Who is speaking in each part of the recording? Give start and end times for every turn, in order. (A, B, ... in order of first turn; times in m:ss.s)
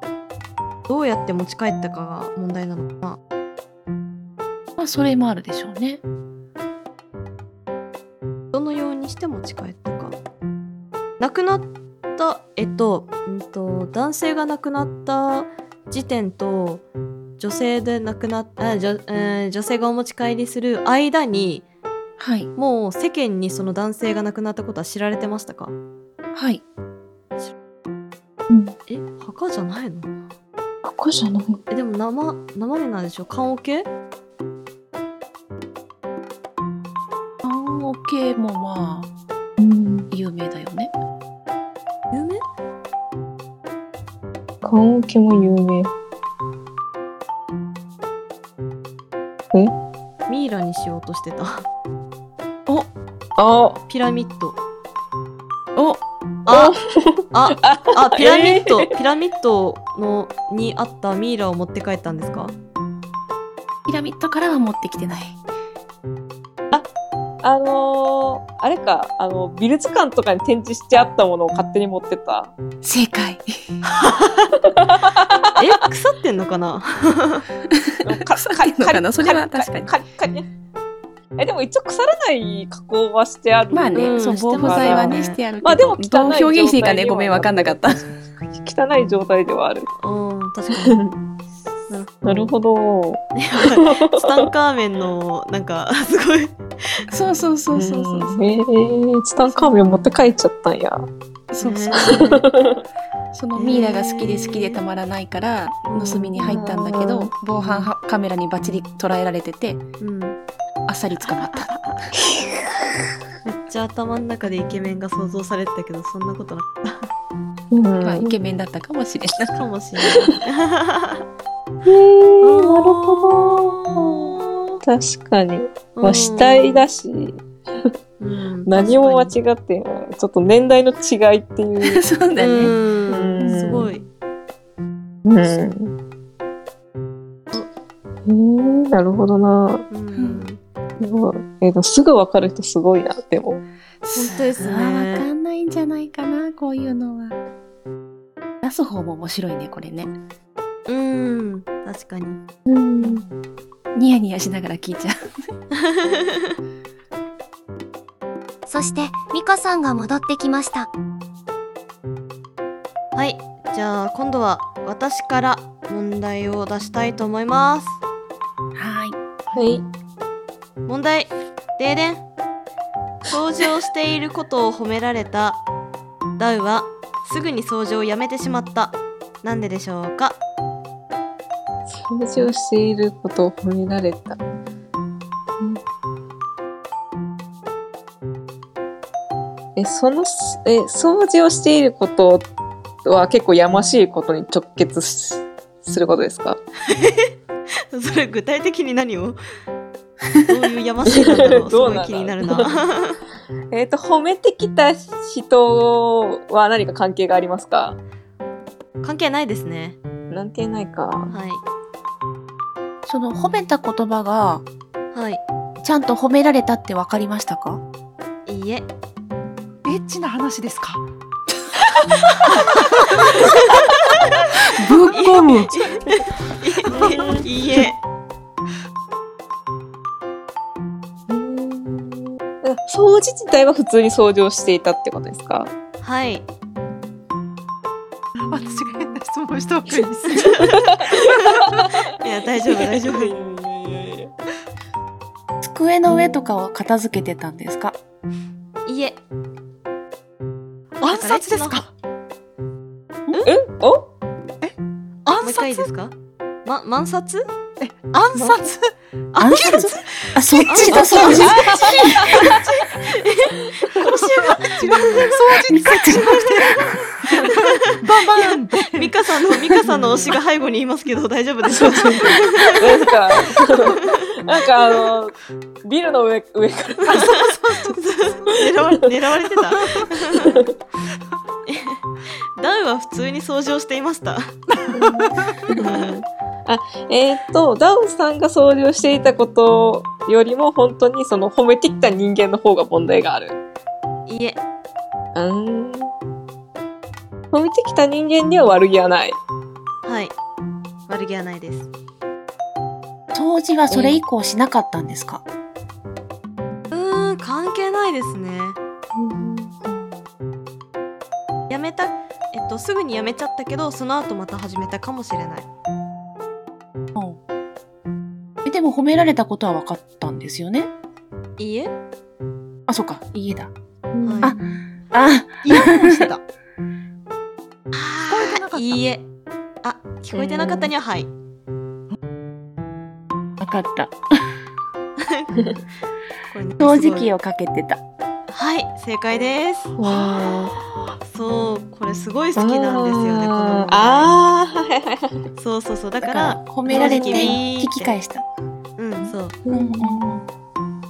0:00.9-0:03.2 A
0:04.8-0:06.0 B
0:08.5-0:10.2 A
0:11.2-0:16.8 A
0:17.4-0:21.6 A
0:22.2-0:22.5 B
0:22.6-0:25.7 A
0:26.3-0:26.6 B
0:28.5-0:28.7 C
0:28.9-0:30.1 A
0:30.8-0:31.6 C
0:31.7-0:33.9 A
0:37.4-0:39.1 B
0:39.6-0:40.1 C
0:40.1-0:40.9 B
0:42.1-0:42.4 A
0:44.6-0:45.9 C
0:50.3-0:51.7 A
0:53.4-0:53.8 C
0:53.9-0:54.6 A
0:55.8-0:56.0 B
0:56.4-0:56.8 A
0:56.5-0:58.9 C
0:57.3-1:02.5 A
1:03.9-1:05.4 B
1:07.4-1:12.5 C
1:12.8-1:13.8 B
1:13.8-1:14.5 A
1:14.6-1:15.6 C
1:15.6-1:17.5 A
1:17.7-1:19.9 B
1:18.0-1:20.5 C
1:21.4-1:29.9 C
1:23.7-1:28.1 B
1:23.9-1:25.4 A
1:30.0-1:31.0 A
1:30.7-1:31.2 C
1:31.9-1:32.5 A
1:32.2-1:34.5 C
1:33.4-1:37.0 A
1:37.1-1:38.4 B
1:37.7-1:41.1 C
1:39.5-1:40.1 A
1:41.5-1:42.4 B
1:41.6-1:42.4 A
1:41.9-1:42.8 C
1:43.3-1:49.8 B
1:43.6-1:44.8 A
1:45.9-1:46.7 A
1:46.4-1:47.3 C
1:47.6-1:47.8 A
1:50.0-1:50.4 A
1:50.9-1:51.8 B
1:51.4-1:51.9 A
1:52.2-1:52.5 C
1:53.4-1:57.1 A
1:57.7-1:58.3 C
1:58.0-1:59.6 B
1:59.5-2:01.2 A
2:01.8-2:07.9 C
2:02.4-2:04.8 A
2:06.0-2:06.8 A
2:08.2-2:09.3 A
2:08.6-2:12.0 C
2:11.8-2:12.7 B
2:12.4-2:14.0 A
2:13.1-2:13.9 C
2:15.2-2:15.9 C
2:18.2-2:19.8 C
2:19.9-2:20.6 A
2:20.1-2:20.4 B
2:21.0-2:23.6 C
2:24.0-2:27.4 B
2:24.1-2:25.3 A
2:28.6-2:30.1 B
2:30.9-2:32.4 A
2:32.6-2:33.2 C
2:33.0-2:33.3 B
2:33.9-2:35.2 B
2:35.8-2:36.4 A
2:38.7-2:40.9 D
2:43.1-2:48.0 A
2:48.7-2:49.2 B
2:49.5-2:49.8 C
2:50.9-2:52.2 A
2:53.3-2:55.6 A
2:56.4-3:00.4 A
3:01.9-3:04.4 C
3:09.8-3:12.5 C
3:13.0-3:16.6 C
3:16.8-3:17.3 A
3:17.9-3:19.4 A
3:20.4-3:23.2 A
3:21.0-3:22.7 C
3:23.7-3:28.0 C
3:29.0-3:30.0 A
3:30.3-3:31.3 C
3:31.3-3:31.6 A
3:33.0-3:34.6 B
3:35.1-3:35.4 A
3:35.8-3:37.8 B
3:38.4-3:38.9 A
3:39.8-3:41.0 E
3:42.4-3:43.5 E
3:43.4-3:44.5 A
3:44.7-3:45.7 B
3:45.1-3:48.0 A
3:46.8-3:47.5 C
3:51.3-3:55.7 C
3:56.0-3:56.5 A
3:58.4-4:00.8 E
4:00.4-4:04.3 C
4:01.2-4:03.3 A
4:05.6-4:08.0 B
4:08.8-4:09.2 A
4:11.0-4:11.9 E
4:11.1-4:11.8 A
4:13.4-4:14.1 C
4:14.6-4:15.8 E
4:15.4-4:16.1 A
4:16.6-4:17.4 A
4:17.8-4:18.9 E
4:19.3-4:25.4 A
4:19.4-4:22.5 B
4:20.9-4:22.5 C
4:21.8-4:22.3 E
4:24.0-4:29.1 E
4:25.7-4:26.8 B
4:26.4-4:34.2 A
4:29.9-4:30.3 C
4:31.7-4:37.5 C
4:37.1-4:38.0 E
4:37.9-4:40.5 A
4:40.3-4:40.7 C
4:41.6-4:42.0 A
4:42.6-4:44.6 A
4:44.8-4:45.7 E
4:44.9-4:53.6 C
4:45.7-4:46.2 A
4:54.3-4:54.6 A
4:55.3-4:56.1 C
4:57.5-4:59.4 C
5:00.0-5:00.3 A
5:01.1-5:01.9 A
5:03.3-5:05.4 B
5:03.9-5:04.2 A
5:06.9-5:08.8 A
5:09.1-5:09.7 C
5:09.8-5:10.2 B
5:11.7-5:15.7 A
5:18.6-5:20.9 B
5:21.6-5:21.9 A
5:22.9-5:23.7 B
5:24.2-5:24.5 C
5:24.2-5:24.5 A
5:24.4-5:26.3 B
5:25.6-5:26.4 E
5:27.9-5:29.2 A
5:28.3-5:29.0 E
5:29.8-5:31.3 A
5:30.3-5:30.9 C
5:33.6-5:34.2 B
5:35.2-5:35.5 A
5:36.5-5:37.3 A
5:36.8-5:38.0 B
5:38.5-5:40.4 A
5:39.9-5:40.8 C
5:41.2-5:44.3 A
5:42.6-5:45.4 C
5:45.6-5:48.1 A
5:46.2-5:48.4 B
5:46.9-5:47.6 C
5:49.0-5:49.6 A
5:49.6-5:50.3 C
5:49.7-5:50.4 B